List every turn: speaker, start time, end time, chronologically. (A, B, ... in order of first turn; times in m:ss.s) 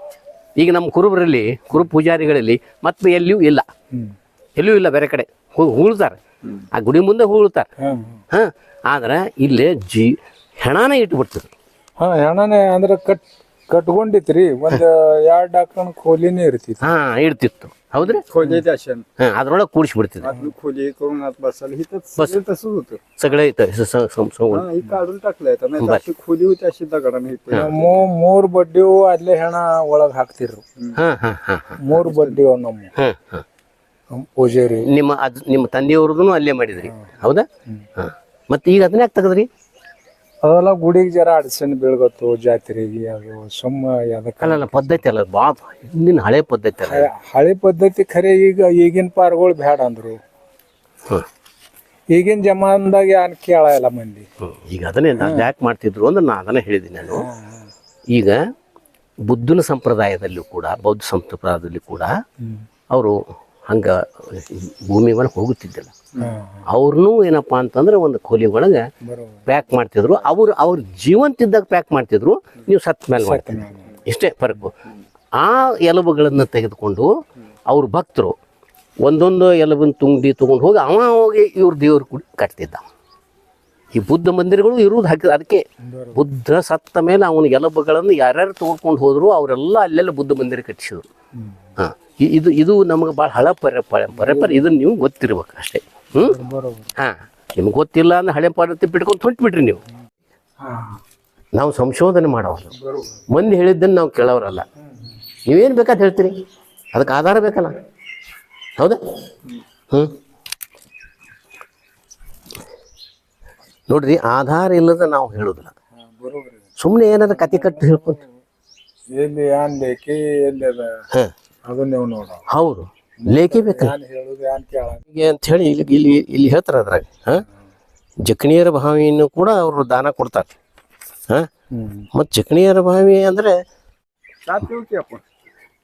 0:00.6-0:03.6 A
0:04.6-0:06.2 A
0:06.7-0:07.7 A
0:07.8-0:08.2 B
0:08.3-0:11.5 A
0:12.0-0:16.8 B
0:16.8-0:18.2 A
0:18.0-0:19.0 C
0:19.2-0:20.3 A
0:20.2-0:23.0 C
0:23.2-0:24.7 A
0:24.5-0:28.0 C
0:27.5-0:30.6 B
0:30.9-0:31.8 A
0:31.8-0:32.9 B
0:32.0-0:32.4 C
0:33.0-0:33.4 A
0:34.1-0:34.9 B
0:34.8-0:39.5 A
0:40.4-0:45.0 B
0:44.4-0:47.1 A
0:46.9-0:50.2 B
0:52.1-0:54.2 B
0:54.4-0:57.2 A
0:55.2-0:55.5 B
0:57.2-0:57.7 B
0:58.1-0:58.4 A
0:59.2-1:02.1 A
1:02.9-1:05.9 A
1:06.2-1:06.6 B
1:06.7-1:08.8 A
1:09.0-1:09.5 B
1:09.5-1:14.7 A
1:13.2-1:13.9 B
1:15.4-1:17.1 A
1:17.7-1:18.4 A
1:19.0-1:22.8 A
1:23.9-1:31.0 A
1:25.8-1:26.2 B
1:31.4-1:31.7 B
1:31.8-1:36.4 A
1:34.1-1:34.6 B
1:36.2-1:36.9 B
1:37.0-1:39.8 A
1:40.6-1:41.0 B
1:41.6-1:42.7 A
1:43.3-1:44.6 A
1:45.4-1:46.4 A
1:46.9-1:47.7 A
1:53.9-1:55.7 A
1:56.0-1:56.6 B
1:56.8-1:58.2 A
1:57.3-1:58.2 B
1:59.1-2:01.0 B
2:01.6-2:02.4 B
2:02.5-2:03.9 A
2:03.2-2:05.0 B
2:05.1-2:07.4 A
2:08.2-2:10.5 A
2:11.7-2:12.1 B
2:12.1-2:13.6 A
2:14.4-2:15.2 C